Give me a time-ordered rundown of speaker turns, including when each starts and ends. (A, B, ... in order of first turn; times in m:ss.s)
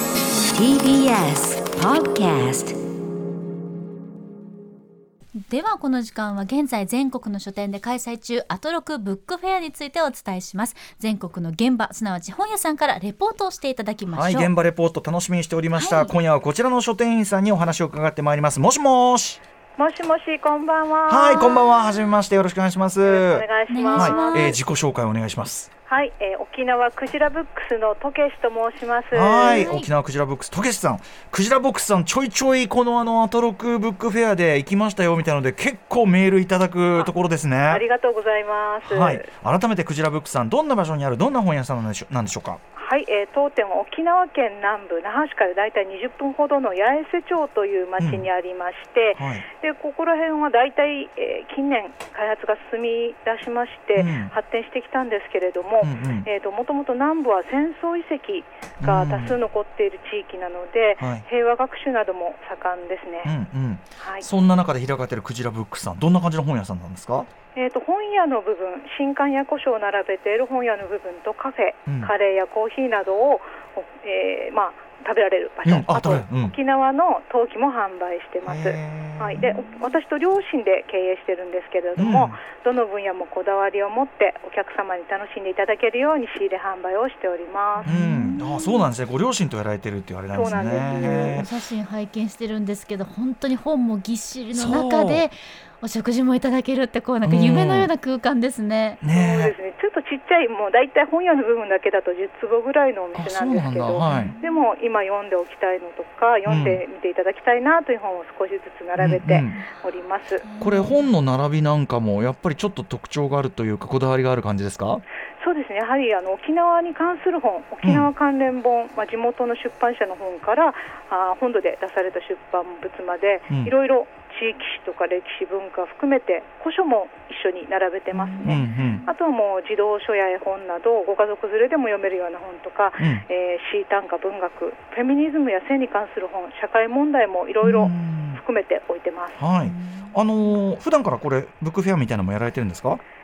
0:00.5-0:02.8 A
0:05.5-0:14.5 B
0:14.1-0:19.4 C
0:15.7-0:16.2 B
0:19.8-0:21.8 D
0:21.1-0:25.7 C
0:23.0-0:24.6 D
0:23.7-0:24.6 B
0:25.9-0:29.7 D
0:29.1-0:37.8 C
0:29.5-0:29.9 B
0:37.7-0:39.3 D
0:38.8-0:42.6 C
0:42.8-1:03.3 D
0:48.0-0:48.3 C
0:49.2-0:49.5 C
0:54.0-0:54.3 C
0:55.8-0:56.3 C
0:58.8-0:59.4 C
1:01.0-1:01.2 C
1:03.2-1:07.3 C
1:04.0-1:04.3 D
1:07.5-1:27.9 D
1:11.9-1:12.1 C
1:15.6-1:16.6 C
1:18.4-1:19.5 C
1:22.0-1:22.4 C
1:27.8-1:28.9 B
1:27.8-1:31.5 C
1:30.3-1:31.4 D
1:31.0-1:39.0 B
1:34.5-1:35.3 C
1:37.2-1:37.9 C
1:39.0-1:39.6 C
1:39.1-1:50.4 D
1:43.2-1:44.3 C
1:44.0-1:44.6 B
1:46.5-1:46.8 C
1:49.0-1:49.6 C
1:50.4-1:51.1 B
1:50.6-1:55.0 C
1:55.4-2:19.4 D
1:57.8-1:58.1 C
2:08.2-2:09.0 C
2:13.0-2:13.2 C
2:17.6-2:18.4 C
2:19.4-2:23.0 C
2:19.7-2:20.1 B